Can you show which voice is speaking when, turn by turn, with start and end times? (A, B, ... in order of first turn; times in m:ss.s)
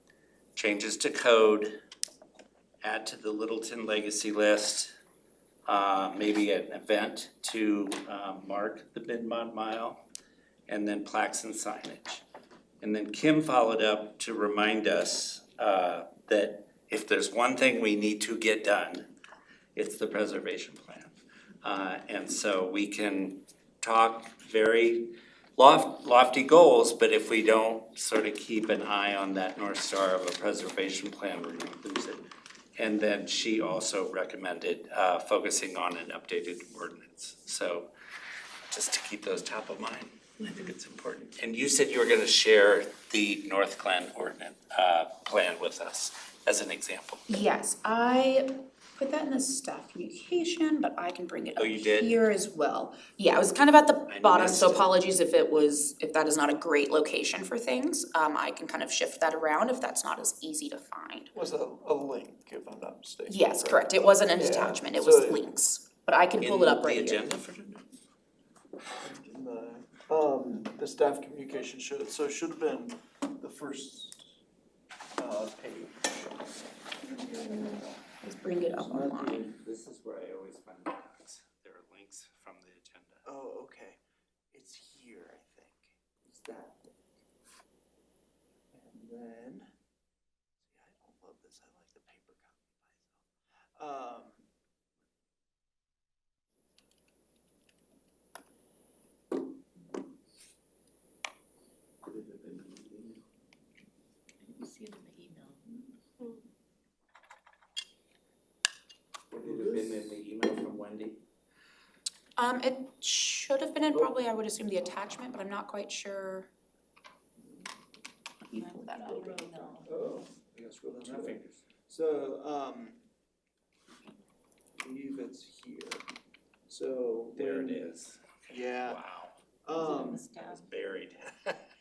0:00.5-0:01.7 A
0:02.8-0:04.9 A
0:05.6-0:10.0 A
0:10.7-0:12.2 A
0:12.8-0:19.1 A
0:19.7-0:32.2 A
0:32.8-0:37.9 A
0:38.7-0:47.3 A
0:47.3-1:01.3 B
0:51.6-0:52.2 A
0:54.1-0:54.9 A
1:01.3-1:05.4 C
1:03.3-1:07.3 B
1:06.4-1:07.8 A
1:09.0-1:14.3 C
1:15.2-1:16.3 C
1:17.0-1:17.8 C
1:18.2-1:19.4 B
1:18.9-1:23.2 A
1:23.2-1:24.0 C
1:24.5-1:26.9 C
1:28.7-1:29.7 C
1:30.6-1:33.2 C
1:33.8-1:34.5 C
1:42.1-1:43.2 A
1:44.4-1:45.6 D
1:49.3-1:51.2 A
1:49.4-1:50.1 C
1:52.4-1:56.5 B
1:58.5-1:59.4 B
1:58.5-1:59.9 D
1:59.3-2:03.0 C
2:01.0-2:01.6 A
2:04.8-2:06.0 C
2:06.7-2:07.8 C
2:07.4-2:09.3 A
2:08.5-2:09.0 C
2:09.6-2:10.3 C
2:09.8-2:10.6 D
2:10.5-2:11.6 A